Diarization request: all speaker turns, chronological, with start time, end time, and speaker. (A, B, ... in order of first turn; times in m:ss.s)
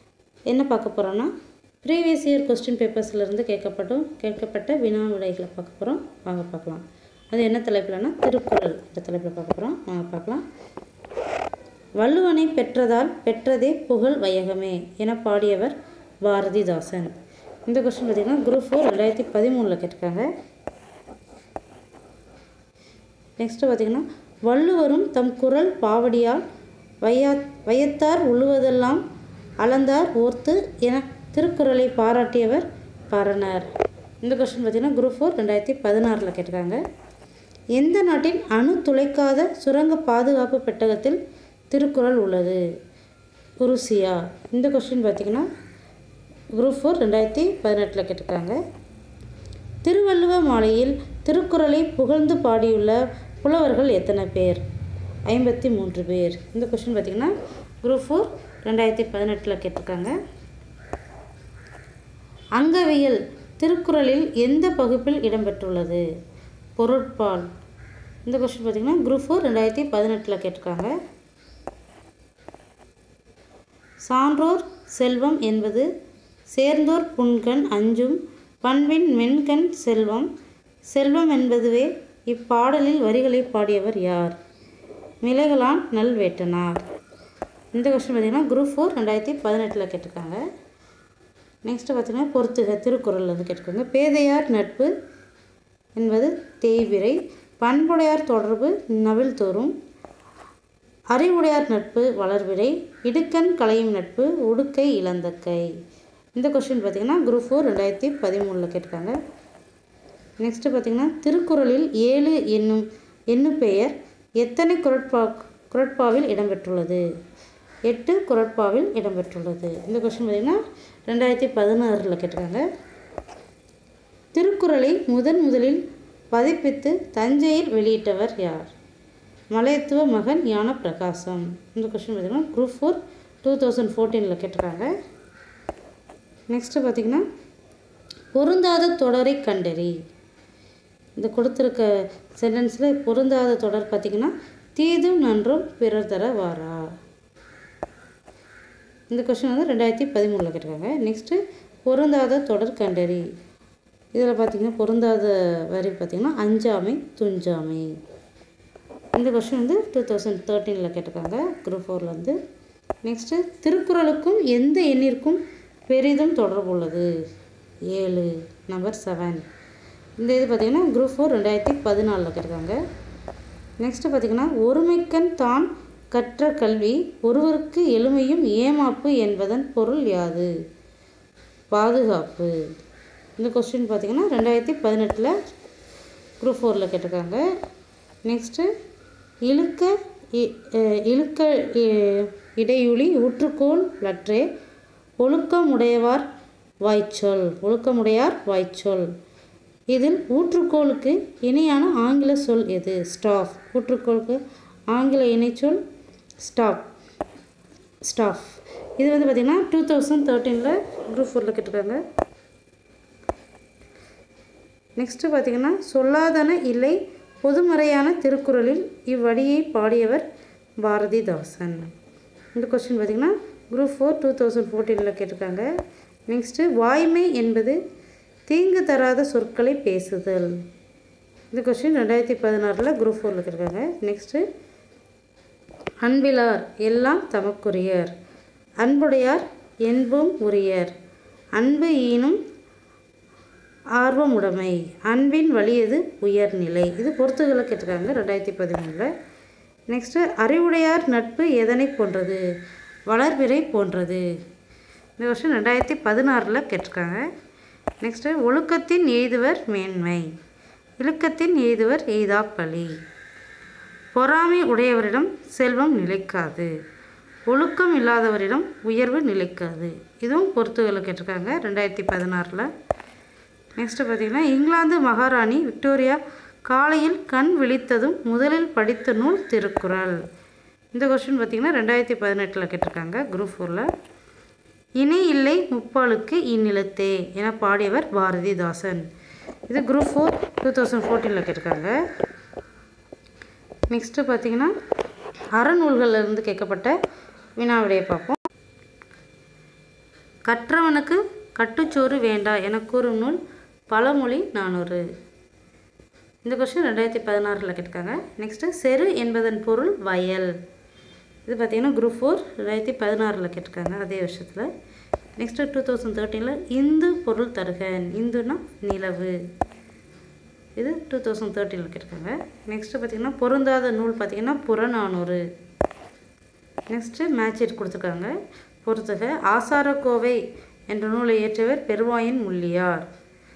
0:00.5-0:01.3 A
0:01.8-0:10.4 A
0:12.0-0:17.1 A
0:17.7-0:20.3 A
0:23.4-0:26.4 A
0:27.0-0:29.0 A
0:29.6-0:33.7 A
0:34.2-0:36.8 A
0:37.8-0:41.2 A
0:41.7-0:42.6 A
0:43.6-0:45.5 A
0:46.6-0:48.6 A
0:49.8-0:54.6 A
0:55.3-0:57.3 A
0:57.8-1:00.1 A
1:02.6-1:06.0 A
1:06.8-1:07.5 A
1:08.2-1:10.9 A
1:14.0-1:15.9 A
1:16.5-1:20.3 A
1:20.9-1:24.4 A
1:25.2-1:26.8 A
1:27.7-1:30.4 A
1:31.6-1:34.9 A
1:36.0-1:39.7 A
1:41.1-1:45.7 A
1:46.3-1:49.1 A
1:50.4-1:57.0 A
1:57.9-2:02.6 A
2:04.3-2:05.8 A
2:06.3-2:08.7 A
2:09.5-2:14.9 A
2:16.5-2:17.2 A
2:18.4-2:19.9 A
2:21.2-2:26.8 A
2:29.1-2:33.3 A
2:34.1-2:37.9 A
2:39.2-2:42.4 A
2:43.0-2:47.1 A
2:47.9-2:49.4 A
2:50.2-2:52.8 A
2:53.8-3:00.5 A
3:01.7-3:02.6 A
3:03.4-3:05.4 A
3:06.4-3:07.4 A
3:08.2-3:08.7 A
3:09.4-3:14.5 A
3:15.2-3:16.2 A
3:16.8-3:19.1 A
3:19.9-3:24.4 A
3:24.9-3:25.8 A
3:26.4-3:26.9 A
3:28.0-3:32.0 A
3:35.0-3:40.2 A
3:40.8-3:41.9 A
3:42.5-3:45.7 A
3:46.3-3:47.8 A
3:48.5-3:50.5 A
3:51.5-3:54.4 A
3:56.0-3:58.1 A
3:58.8-4:00.9 A
4:01.6-4:02.4 A
4:04.0-4:09.1 A
4:09.9-4:12.4 A
4:13.1-4:14.2 A
4:15.2-4:17.2 A
4:18.0-4:20.3 A
4:21.0-4:22.9 A
4:24.1-4:26.7 A
4:27.5-4:32.7 A
4:33.8-4:40.2 A
4:40.9-4:43.9 A
4:45.0-4:49.0 A
4:49.7-4:52.0 A
4:53.9-4:54.7 A
4:55.6-4:56.9 A
4:57.6-4:58.4 A
5:00.5-5:03.4 A
5:03.9-5:05.0 A
5:06.4-5:10.5 A
5:11.4-5:14.7 A
5:15.4-5:19.4 A
5:20.8-5:25.4 A
5:26.9-5:28.3 A
5:28.8-5:33.0 A